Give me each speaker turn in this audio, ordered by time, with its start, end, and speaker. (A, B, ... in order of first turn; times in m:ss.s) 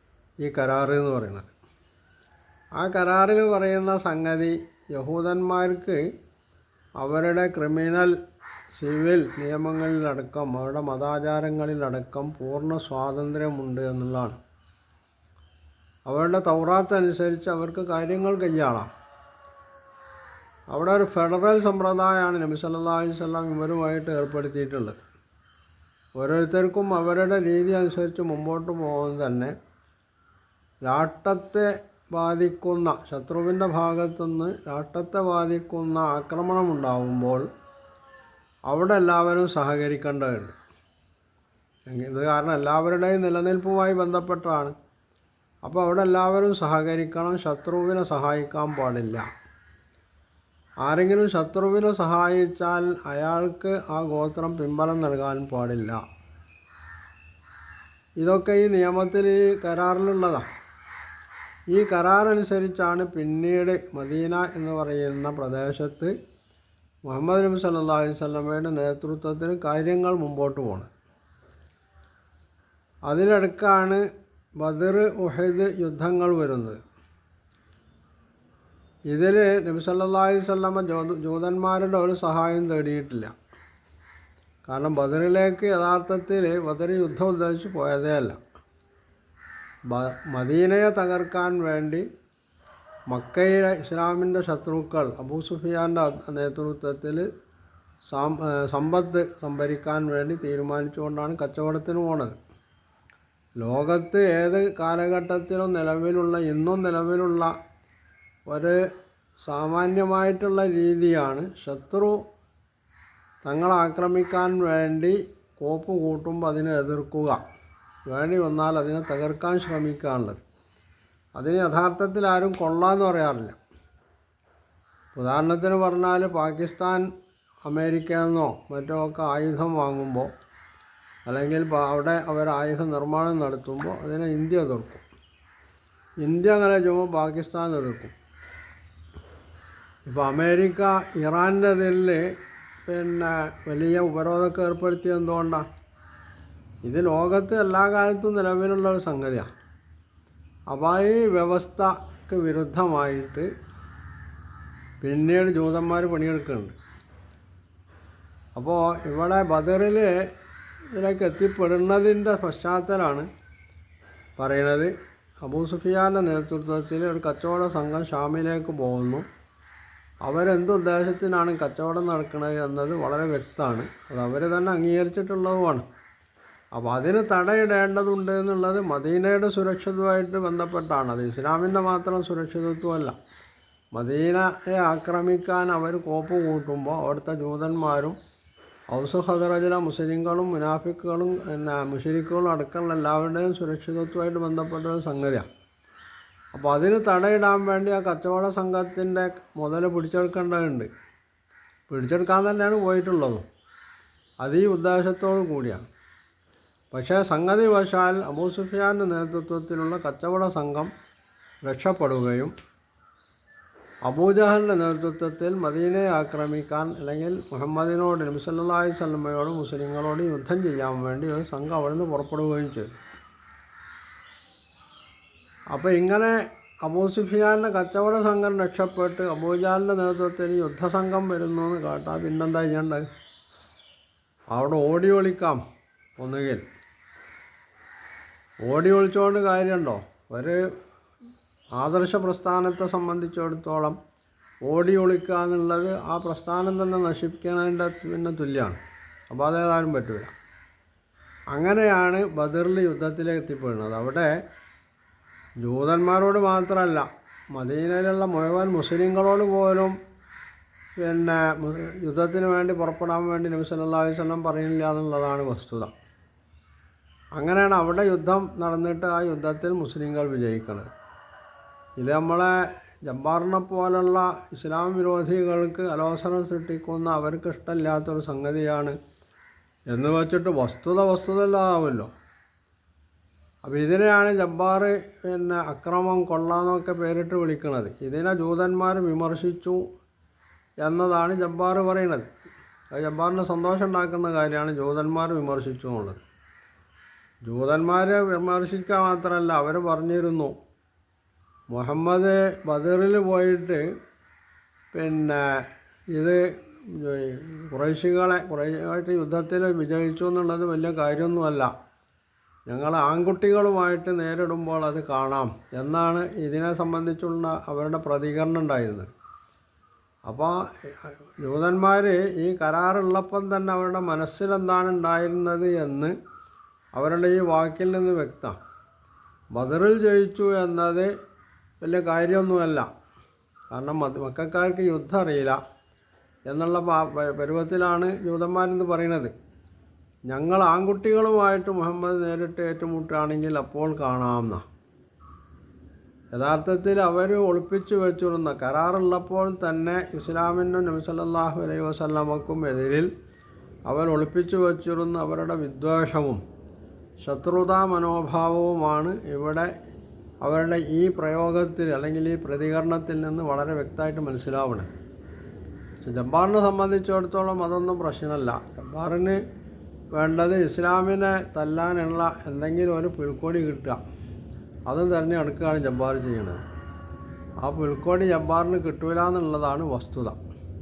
0:00.4-0:01.5 A
0:02.8-0:06.0 A
0:07.0-0:08.1 A
0:08.7-0:14.4 A
0:16.0-0:18.9 A
0:20.7-0:25.0 A
0:26.2-0:29.5 A
0:30.8-0:37.4 A
0:38.7-0:40.5 A
0:41.9-0:44.7 A
0:45.6-0:49.2 A
0:50.8-0:56.0 A
0:58.2-1:00.4 A
1:01.7-1:06.1 A
1:07.0-1:10.9 A
1:13.1-1:14.0 A
1:14.6-1:16.8 A
1:19.1-1:23.3 A
1:24.6-1:28.4 A
1:29.9-1:32.0 A
1:33.1-1:37.3 A
1:38.1-1:42.3 A
1:43.6-1:47.5 A
1:48.5-1:48.8 A
1:49.4-1:52.2 A
1:53.4-1:57.4 A
1:58.1-2:00.4 A
2:01.4-2:03.6 A
2:05.1-2:07.1 A
2:07.6-2:10.3 A
2:11.2-2:15.0 A
2:16.2-2:18.1 A
2:20.0-2:22.3 A
2:22.9-2:25.6 A
2:26.8-2:29.5 A
2:30.7-2:33.5 A
2:35.0-2:36.8 A
2:38.6-2:40.1 A
2:40.9-2:43.3 A
2:44.4-2:49.2 A
2:50.2-2:55.8 A
2:56.7-3:03.1 A
3:03.9-3:08.2 A
3:08.9-3:15.4 A
3:16.5-3:20.9 A
3:21.9-3:23.4 A
3:24.4-3:25.9 A
3:26.9-3:30.9 A
3:31.6-3:32.5 A
3:34.0-3:43.0 A
3:45.7-3:53.0 A
3:54.5-3:55.6 A
3:56.2-3:56.6 A
3:58.6-4:00.6 A
4:01.8-4:04.0 A
4:04.6-4:10.3 A
4:11.5-4:14.3 A
4:15.6-4:19.9 A
4:21.0-4:25.9 A
4:27.4-4:30.9 A
4:32.0-4:39.0 A
4:39.9-4:42.1 A
4:43.6-4:49.8 A
4:50.8-4:52.3 A
4:52.9-4:56.2 A
4:57.4-5:00.5 A
5:01.7-5:03.8 A
5:04.9-5:11.7 A
5:12.7-5:19.1 A
5:20.3-5:26.1 A
5:27.0-5:28.6 A
5:29.5-5:31.1 A
5:31.8-5:32.9 A
5:33.7-5:35.6 A
5:36.5-5:39.3 A
5:40.3-5:44.6 A
5:46.3-5:53.1 A
5:53.9-5:56.4 A
5:57.2-5:59.7 A
6:00.4-6:04.9 A
6:06.0-6:09.4 A
6:10.1-6:14.0 A
6:14.9-6:16.6 A
6:17.6-6:20.4 A